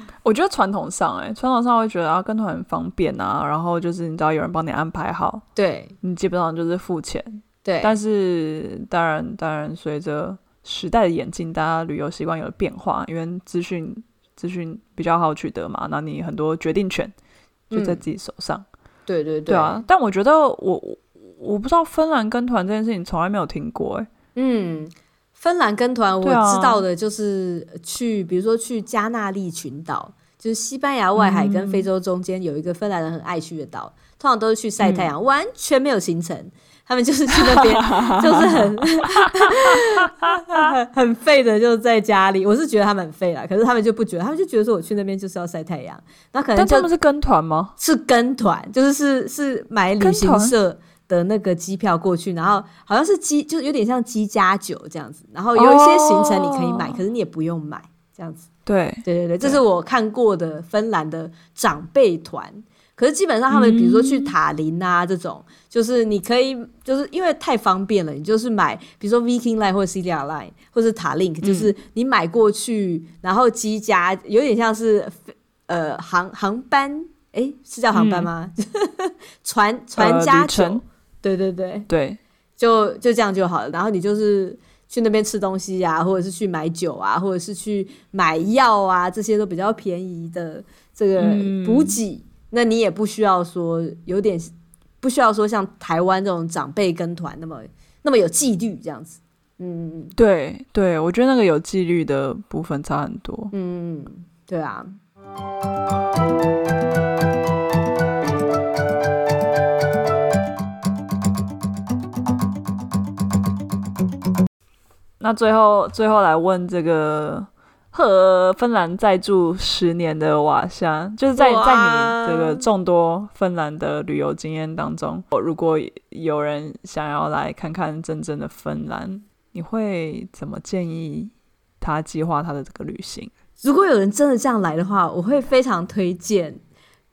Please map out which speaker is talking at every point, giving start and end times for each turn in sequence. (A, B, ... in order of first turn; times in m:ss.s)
0:00.2-0:05.4 A
0:05.6-0:05.9 B
0:06.0-0:17.1 A
0:07.6-0:08.0 B
0:17.7-0:18.0 B
0:17.7-0:18.6 A
0:19.1-0:19.8 B
0:19.5-0:24.1 A
0:24.4-0:46.9 B
0:26.2-0:26.8 A
0:31.2-0:31.9 A
0:34.8-0:35.1 A
0:37.3-0:40.7 A
0:46.6-0:47.8 A
0:47.8-0:58.5 B
0:50.0-0:50.5 A
0:55.6-0:57.0 A
0:58.7-0:59.6 A
0:59.0-1:21.9 B
1:03.5-1:04.3 A
1:11.4-1:11.7 A
1:17.9-1:18.3 A
1:20.0-1:20.8 A
1:21.9-1:22.2 A
1:22.6-1:40.2 B
1:31.2-1:32.0 A
1:40.2-1:43.5 A
1:43.5-1:45.0 B
1:55.2-2:13.3 A
2:01.4-2:02.6 B
2:13.6-2:16.6 B